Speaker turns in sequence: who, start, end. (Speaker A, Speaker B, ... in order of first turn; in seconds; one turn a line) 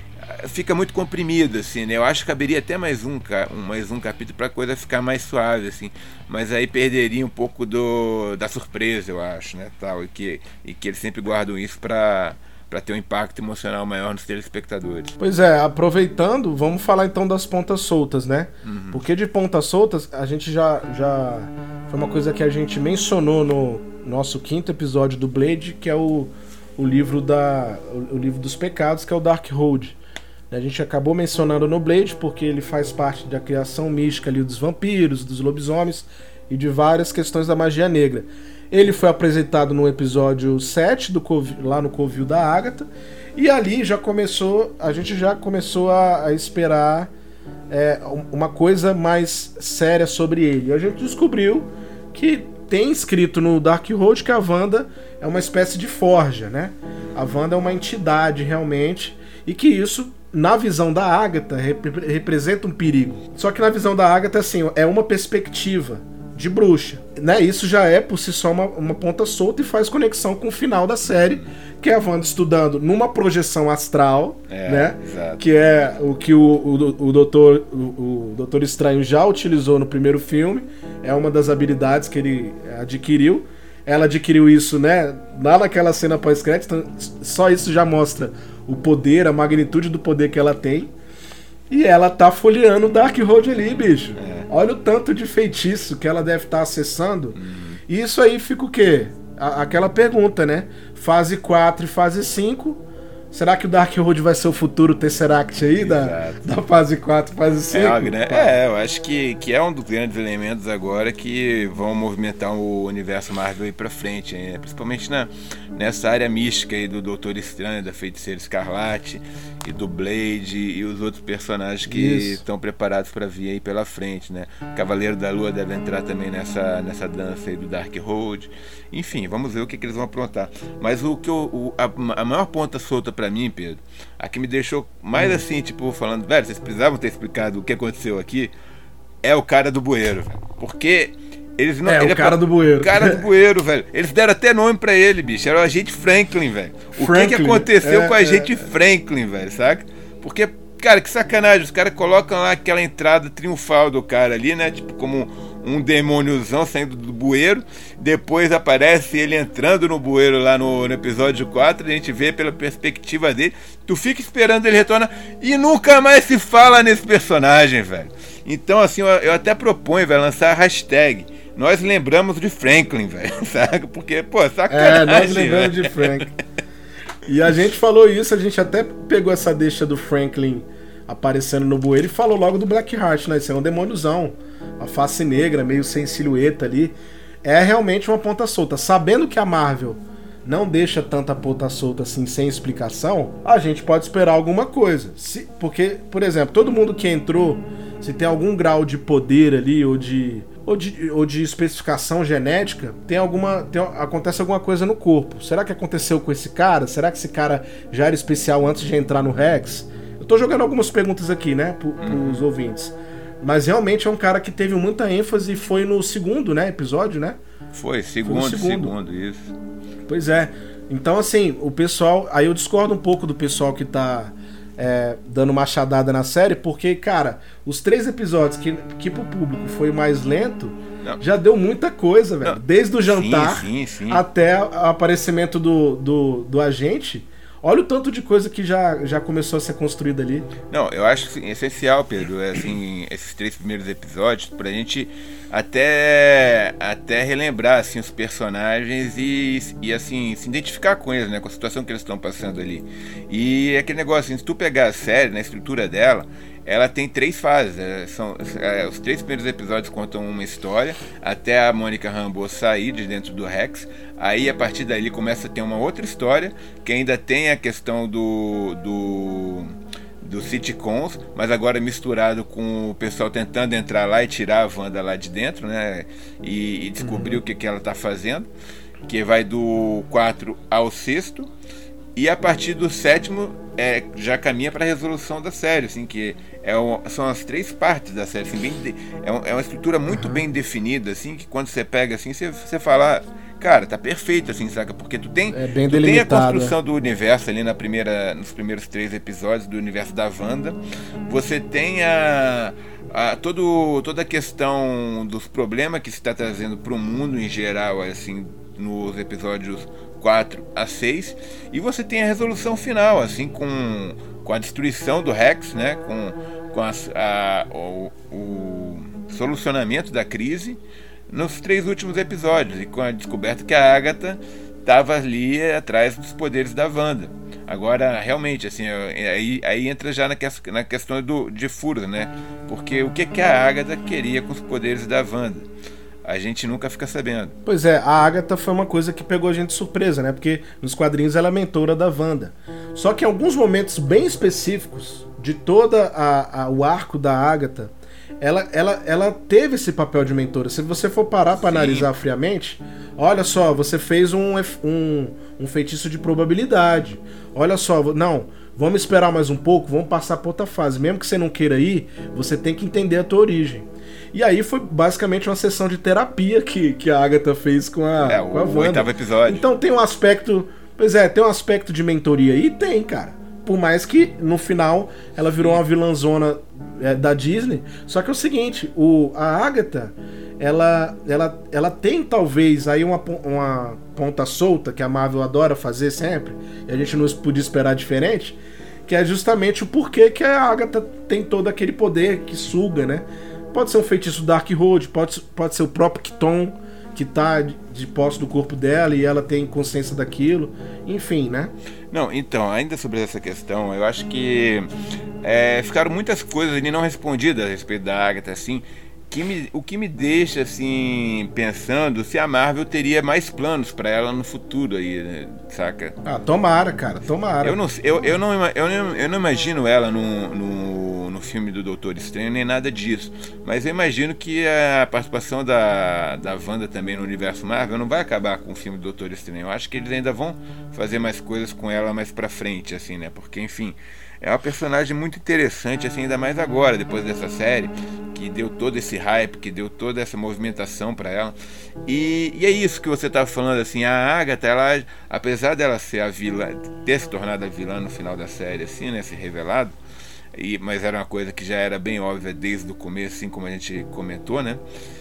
Speaker A: 0.2-15.2
Speaker B: 15.2-30.0
Speaker A: 18.6-19.0
Speaker B: 30.5-47.1
Speaker B: 47.7-90.9
Speaker A: 71.1-71.5
Speaker A: 74.5-75.4
Speaker B: 91.7-108.6
Speaker A: 94.2-94.5
Speaker A: 97.3-97.8
Speaker A: 105.8-106.5
Speaker A: 107.7-138.5
Speaker B: 121.8-122.4
Speaker B: 135.2-135.4
Speaker A: 139.2-176.4
Speaker B: 141.8-143.2
Speaker B: 147.0-148.7
Speaker B: 174.7-176.3
Speaker B: 177.2-217.4
Speaker A: 212.0-212.4
Speaker A: 217.7-219.5
Speaker B: 218.2-218.9
Speaker B: 220.1-240.5
Speaker A: 232.4-234.2
Speaker A: 240.7-278.5
Speaker B: 277.0-277.4
Speaker A: 279.1-281.5
Speaker A: 282.2-335.7
Speaker B: 290.1-290.4
Speaker B: 295.5-296.8
Speaker A: 336.2-337.6
Speaker B: 337.6-401.7
Speaker A: 351.6-352.1
Speaker A: 368.2-369.6
Speaker A: 402.1-404.9
Speaker A: 405.4-416.2
Speaker B: 416.2-417.8
Speaker A: 417.6-441.6
Speaker A: 442.1-450.0
Speaker A: 450.5-454.8